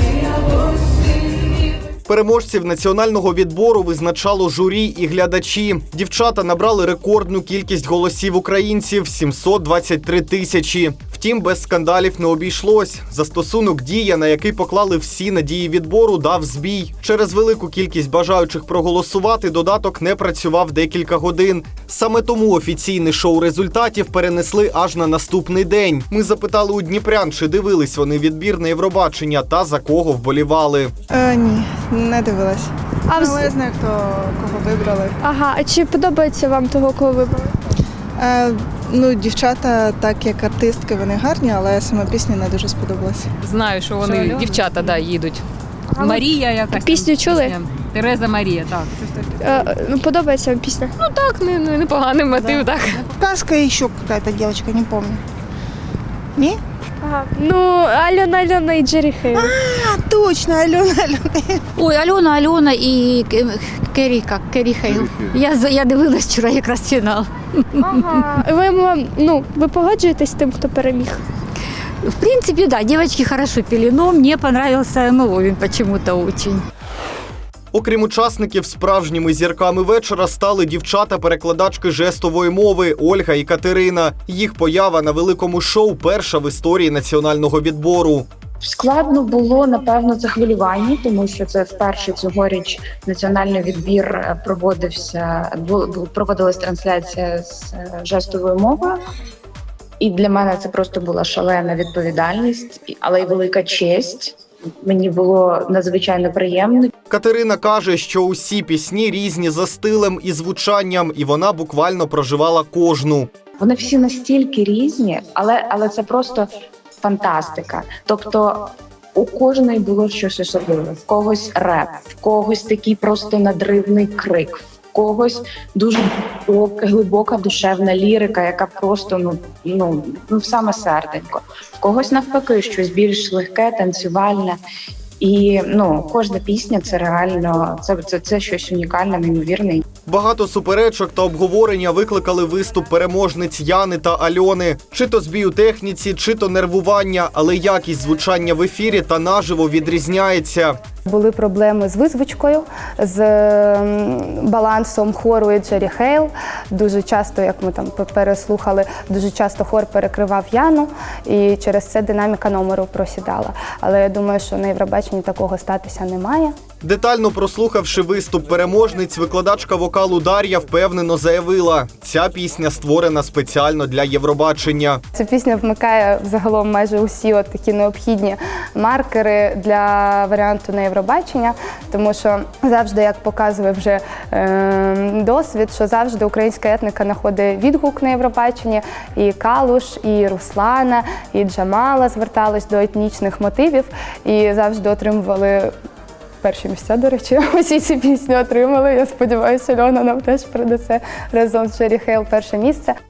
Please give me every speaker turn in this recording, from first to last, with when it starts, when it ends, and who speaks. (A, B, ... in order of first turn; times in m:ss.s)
0:02.1-0:30.9 A
0:31.1-0:35.2 B
0:33.1-0:33.5 C
0:35.2-0:37.5 C
0:38.2-0:43.3 B
0:43.4-0:45.4 D
0:44.0-0:44.6 B
0:46.0-0:47.6 C
0:46.0-0:49.0 D
0:49.4-0:50.9 C
0:51.0-0:53.1 D
0:53.1-0:55.2 E
0:56.4-0:56.6 E
0:57.0-0:59.5 C
0:59.3-1:01.6 E
1:01.8-1:08.2 F
1:07.8-1:11.2 C
1:12.0-1:16.6 F
1:17.7-1:28.3 A
1:28.6-1:39.0 G
1:40.0-1:46.9 G
1:47.1-1:53.3 A
1:53.6-2:14.6 G
2:15.2-2:19.8 G
2:20.1-2:30.8 A
2:31.1-2:46.6 H
2:46.8-2:55.0 A
2:55.2-3:15.7 H
3:16.4-3:23.0 H